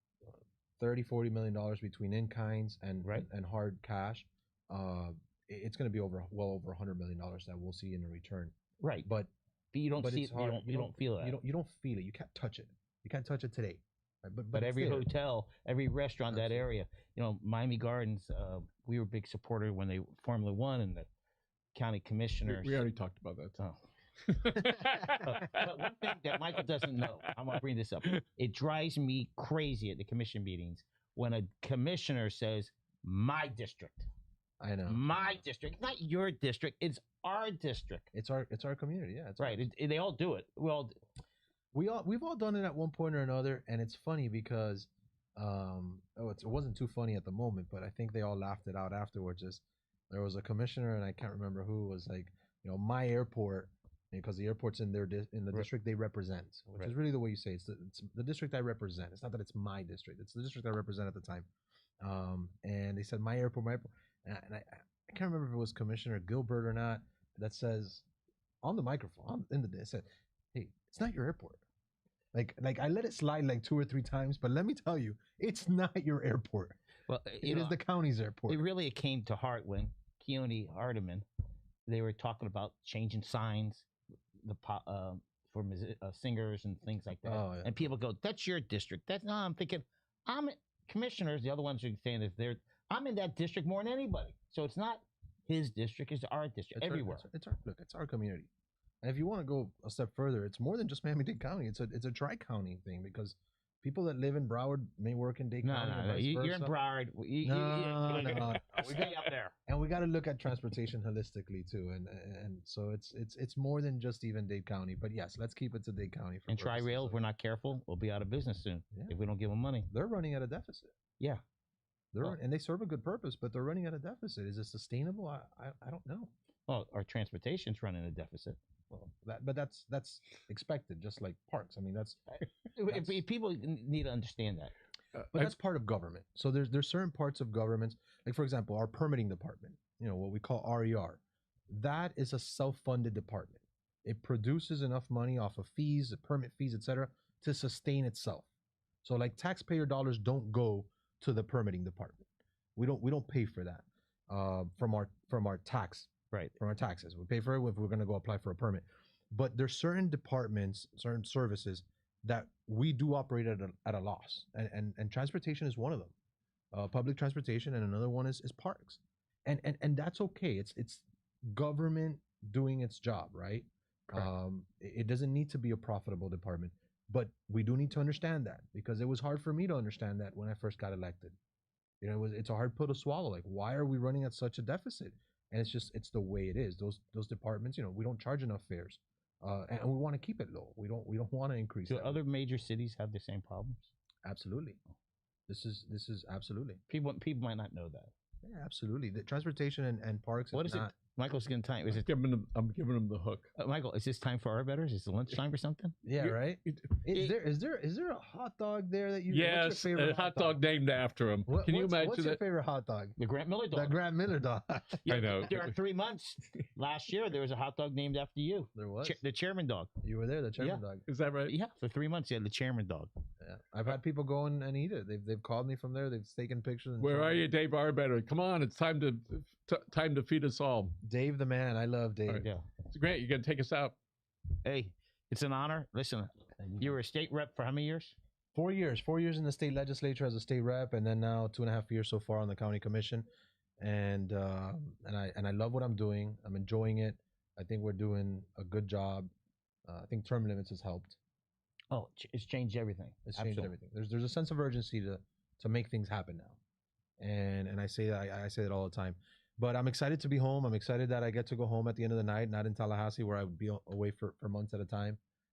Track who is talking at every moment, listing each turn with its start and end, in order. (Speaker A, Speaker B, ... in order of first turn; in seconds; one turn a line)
Speaker A: 0.3-9.3
Speaker B: 8.8-9.1
Speaker B: 9.7-11.4
Speaker A: 10.0-15.1
Speaker B: 14.5-21.1
Speaker A: 16.3-16.7
Speaker B: 21.7-22.8
Speaker C: 22.5-23.6
Speaker C: 24.3-25.7
Speaker B: 25.1-34.1
Speaker A: 34.6-35.4
Speaker B: 34.9-38.1
Speaker A: 38.1-39.7
Speaker B: 39.4-40.9
Speaker A: 41.7-61.5
Speaker A: 62.0-68.1
Speaker A: 68.6-71.6
Speaker A: 72.3-76.8
Speaker B: 77.1-77.8
Speaker A: 77.4-78.7
Speaker B: 78.5-81.2
Speaker B: 81.9-83.9
Speaker B: 84.4-97.3
Speaker A: 87.2-87.9
Speaker A: 96.8-98.5
Speaker A: 99.0-106.8
Speaker B: 105.6-109.5
Speaker A: 107.4-117.2
Speaker B: 116.5-119.9
Speaker A: 119.9-120.9
Speaker A: 122.1-126.3
Speaker B: 126.7-128.6
Speaker A: 128.9-133.2
Speaker B: 132.3-134.7
Speaker C: 135.2-135.5
Speaker A: 135.3-148.5
Speaker A: 149.0-152.2
Speaker A: 152.8-166.1
Speaker A: 166.7-181.4
Speaker A: 182.0-192.2
Speaker B: 191.9-193.9
Speaker A: 194.2-194.8
Speaker A: 195.5-196.8
Speaker B: 196.9-198.1
Speaker A: 198.4-200.9
Speaker B: 200.5-202.1
Speaker C: 201.9-203.5
Speaker B: 203.6-205.9
Speaker A: 206.0-210.6
Speaker C: 206.2-206.9
Speaker C: 209.3-212.4
Speaker A: 211.5-213.2
Speaker B: 213.2-214.0
Speaker A: 213.7-215.1
Speaker B: 215.1-219.9
Speaker C: 215.1-215.8
Speaker A: 218.8-219.2
Speaker A: 220.0-221.1
Speaker C: 221.1-221.5
Speaker B: 221.5-223.1
Speaker A: 223.4-227.5
Speaker C: 227.0-231.0
Speaker A: 231.0-232.5
Speaker C: 232.3-233.9
Speaker B: 234.6-238.2
Speaker A: 236.6-237.0
Speaker A: 238.6-243.3
Speaker A: 243.8-249.3
Speaker A: 249.9-251.2
Speaker B: 251.9-253.7
Speaker A: 253.3-256.6
Speaker A: 257.2-265.2